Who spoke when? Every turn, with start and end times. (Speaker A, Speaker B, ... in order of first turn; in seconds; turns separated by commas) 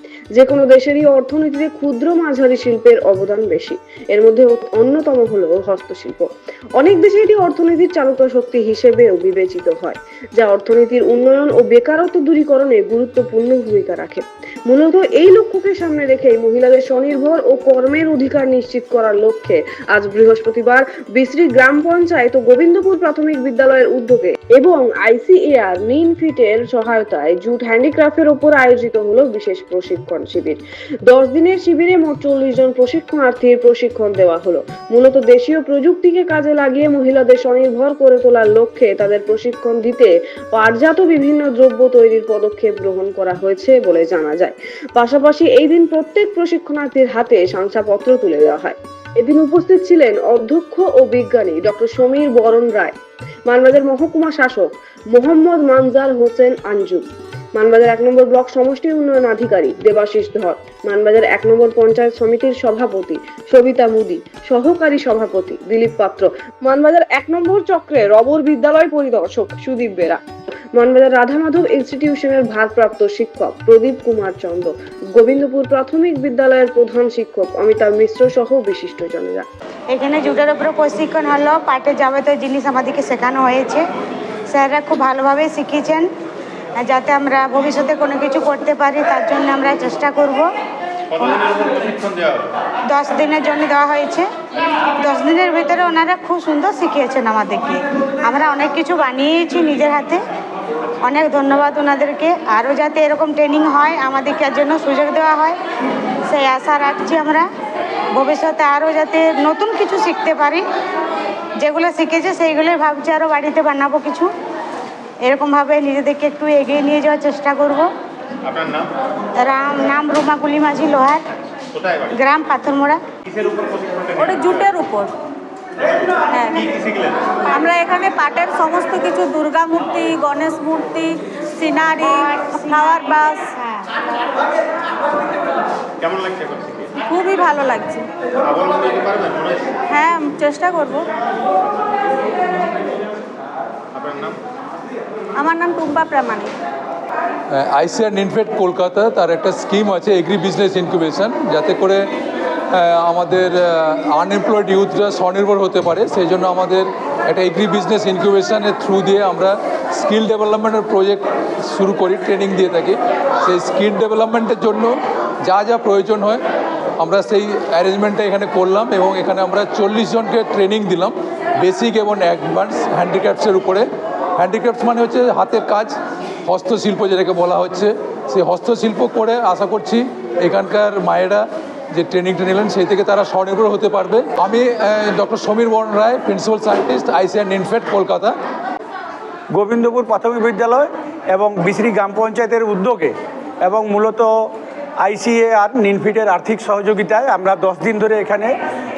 Speaker A: 0.3-53.0, Speaker A: 53.5-70.2, Speaker A: 70.8-79.5, Speaker B: 79.9-83.8, Speaker B: 84.5-86.1, Speaker B: 86.8-90.5, Speaker C: 91.1-92.5, Speaker B: 92.9-94.3, Speaker B: 95.0-100.2, Speaker B: 101.1-105.6, Speaker B: 106.3-107.5, Speaker B: 108.1-110.7, Speaker B: 111.6-114.3, Speaker B: 115.2-117.9, Speaker C: 118.5-118.9, Speaker B: 119.4-121.2, Speaker C: 121.7-122.1, Speaker B: 122.1-123.0, Speaker C: 123.3-124.7, Speaker D: 124.2-125.1, Speaker C: 125.8-127.4, Speaker D: 126.3-126.7, Speaker D: 127.5-133.6, Speaker C: 136.0-136.9, Speaker D: 137.0-138.1, Speaker C: 138.4-139.8, Speaker D: 139.8-141.1, Speaker C: 143.9-144.4, Speaker D: 145.4-146.5, Speaker E: 147.5-152.0, Speaker E: 152.7-164.9, Speaker E: 165.5-166.4, Speaker E: 167.0-173.9, Speaker E: 174.4-175.9, Speaker E: 176.5-188.3, Speaker F: 189.6-193.1, Speaker F: 193.7-194.3, Speaker F: 195.0-198.5